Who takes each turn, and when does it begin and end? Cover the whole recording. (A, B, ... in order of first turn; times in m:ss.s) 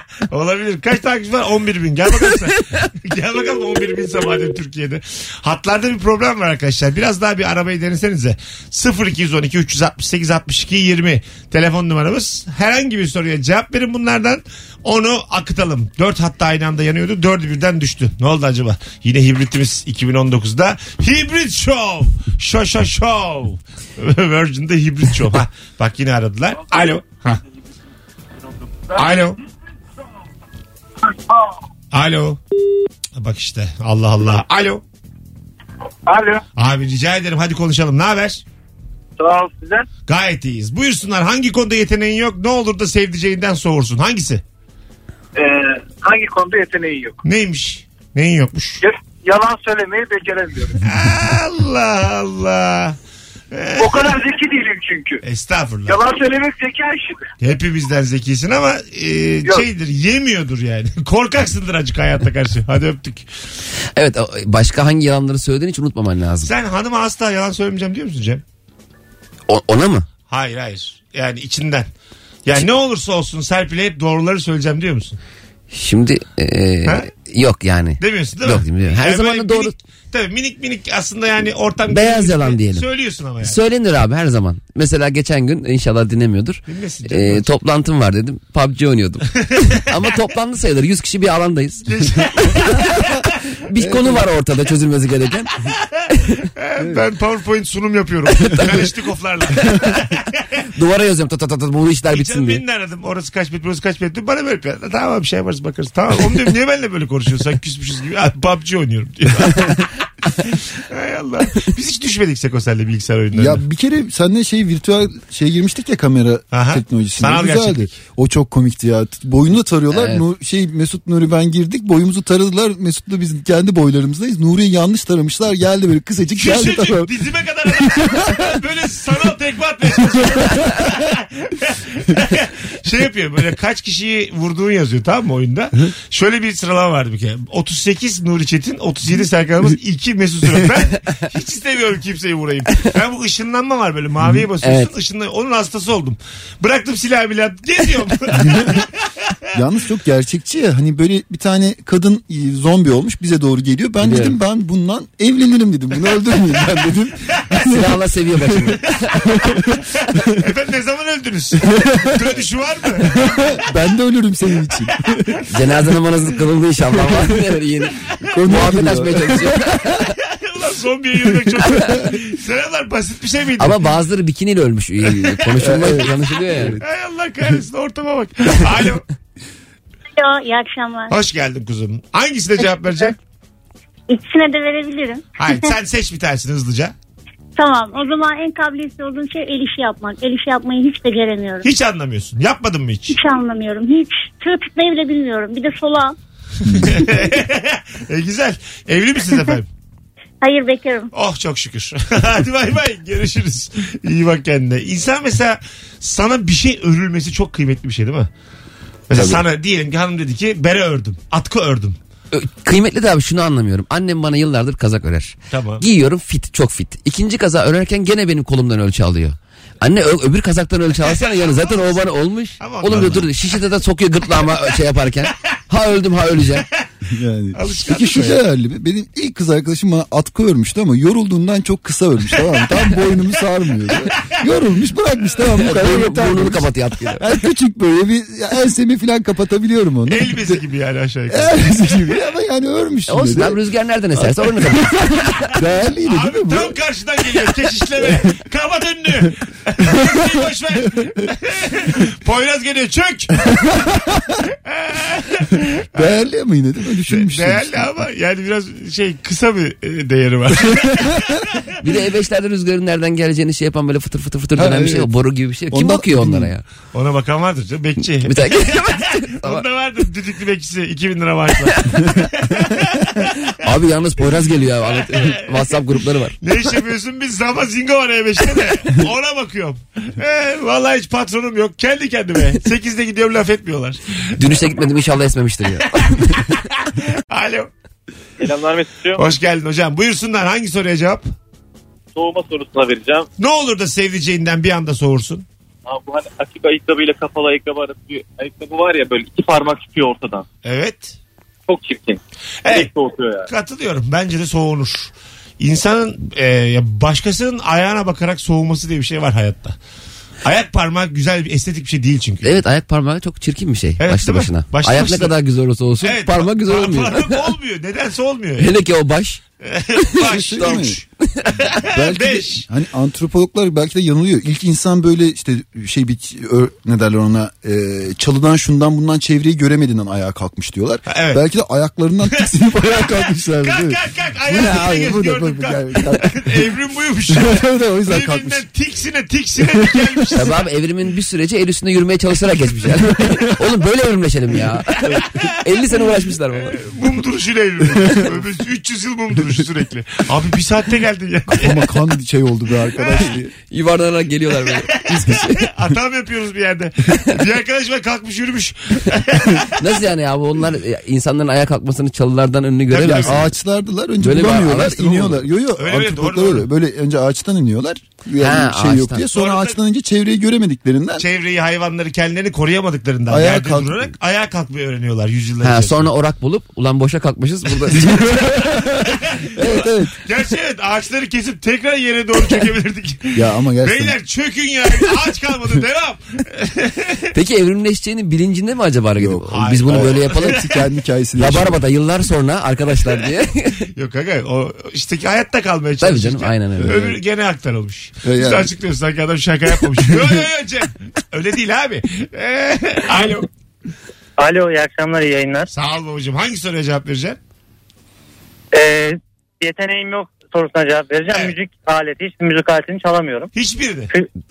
0:00.3-0:27.4 A
0:29.0-0:29.4 A
0:31.9-0:32.4 A
0:33.2-0:34.8 A
0:36.1-0:36.4 B
0:36.6-0:38.4 A
0:39.2-0:39.9 B
0:40.1-0:44.4 A
0:45.4-0:47.2 B
0:47.2-0:48.8 A
0:48.8-0:50.8 B
0:50.8-0:53.0 A
0:53.5-0:54.2 A
0:53.8-0:55.2 B
0:55.2-0:56.0 A
0:55.9-0:57.3 B
0:57.4-1:03.3 A
1:04.0-1:06.5 C
1:06.4-1:08.4 A
1:09.5-1:10.1 C
1:10.3-1:11.9 A
1:12.4-1:15.2 A
1:15.7-1:19.7 C
1:18.0-1:23.6 A
1:21.9-1:22.8 C
1:23.4-1:31.9 C
1:26.7-1:27.5 A
1:31.9-1:33.1 A
1:32.8-1:33.1 C
1:33.7-1:35.5 C
1:33.8-1:34.3 D
1:36.5-1:40.4 A
1:40.8-1:42.6 C
1:42.1-1:53.6 A
1:53.3-2:07.1 D
1:56.5-1:57.9 A
1:59.9-2:00.2 C
2:06.4-2:29.0 A
2:07.7-2:08.6 D
2:24.6-2:24.9 C
2:28.4-2:28.8 D
2:29.5-2:38.8 D
2:34.0-2:34.4 C
2:37.6-2:39.2 C
2:39.3-2:40.2 D
2:40.1-2:43.3 A
2:41.6-2:42.2 D
2:43.1-2:45.4 D
2:45.5-2:50.1 C
2:47.0-2:47.4 D
2:48.3-2:49.6 D
2:50.2-2:53.9 A
2:51.8-2:52.1 D
2:53.6-2:56.8 C
2:55.6-2:56.8 D
2:56.8-2:59.0 A
3:00.1-3:01.2 E
3:01.1-3:03.1 A
3:04.1-3:05.7 E
3:05.4-3:06.9 A
3:07.6-3:11.7 E
3:11.6-3:13.1 A
3:13.1-3:16.2 E
3:16.6-3:19.7 A
3:20.4-3:21.1 E
3:21.1-3:28.3 A
3:29.1-3:32.0 A
3:29.2-3:29.4 D
3:32.3-3:46.6 C
3:35.5-3:35.8 A
3:41.1-3:42.0 A
3:42.6-3:43.6 A
3:47.1-4:00.6 D
3:47.5-3:48.4 A
3:52.4-3:53.0 A
3:54.2-3:54.5 A
3:55.6-3:57.3 C
4:00.1-4:02.1 A
4:01.3-4:03.6 D
4:03.1-4:05.5 C
4:04.2-4:06.8 D
4:06.1-4:13.6 A
4:08.0-4:08.3 D
4:09.9-4:10.4 D
4:13.5-4:14.3 D
4:14.6-4:16.2 A
4:15.9-4:18.0 D
4:17.1-4:21.6 A
4:20.7-4:21.4 D
4:21.8-4:26.6 C
4:24.6-4:25.1 D
4:25.7-4:26.5 D
4:26.9-4:33.6 A
4:28.2-4:29.6 C
4:31.6-4:32.0 C
4:33.6-4:36.4 C
4:34.8-4:35.8 A
4:36.4-4:44.5 A
4:44.4-4:46.5 C
4:46.3-4:47.7 A
4:48.4-4:49.2 F
4:49.2-4:51.2 A
4:52.2-4:53.3 F
4:53.4-4:55.4 A
4:55.9-5:00.5 F
5:00.6-5:01.2 A
5:01.7-5:03.5 F
5:02.6-5:02.9 A
5:03.5-5:09.8 A
5:10.4-5:12.6 A
5:12.4-5:17.5 C
5:14.0-5:15.3 A
5:16.0-5:18.7 A
5:18.6-5:19.4 C
5:19.6-5:21.0 A
5:20.0-5:21.8 C
5:20.2-5:21.0 D
5:21.6-5:22.6 A
5:21.8-5:36.7 D
5:31.1-5:31.4 A
5:33.6-5:40.6 A
5:37.3-5:38.6 D
5:39.6-5:40.3 D
5:40.3-5:46.8 C
5:43.2-5:43.6 D
5:45.0-5:45.4 D
5:45.1-5:45.5 A
5:46.7-5:51.9 A
5:51.5-5:53.5 D
5:53.7-5:55.7 C
5:55.3-5:59.8 A
5:59.8-6:03.5 C
6:02.9-6:03.4 A
6:03.0-6:11.2 D
6:04.2-6:05.4 C
6:05.8-6:06.7 A
6:08.4-6:09.3 C
6:09.3-6:09.8 A
6:11.2-6:16.1 A
6:13.3-6:14.2 D
6:15.6-6:18.8 C
6:17.9-6:20.2 D
6:19.3-6:27.3 A
6:23.3-6:24.2 D
6:27.3-6:30.6 C
6:29.2-6:31.8 D
6:29.5-6:30.8 A
6:31.4-6:33.9 C
6:33.9-6:43.5 A
6:36.0-6:37.2 C
6:38.2-6:38.7 D
6:40.0-6:40.4 D
6:44.4-6:45.7 G
6:45.7-6:47.4 A
6:48.7-6:53.5 G
6:53.6-6:54.1 A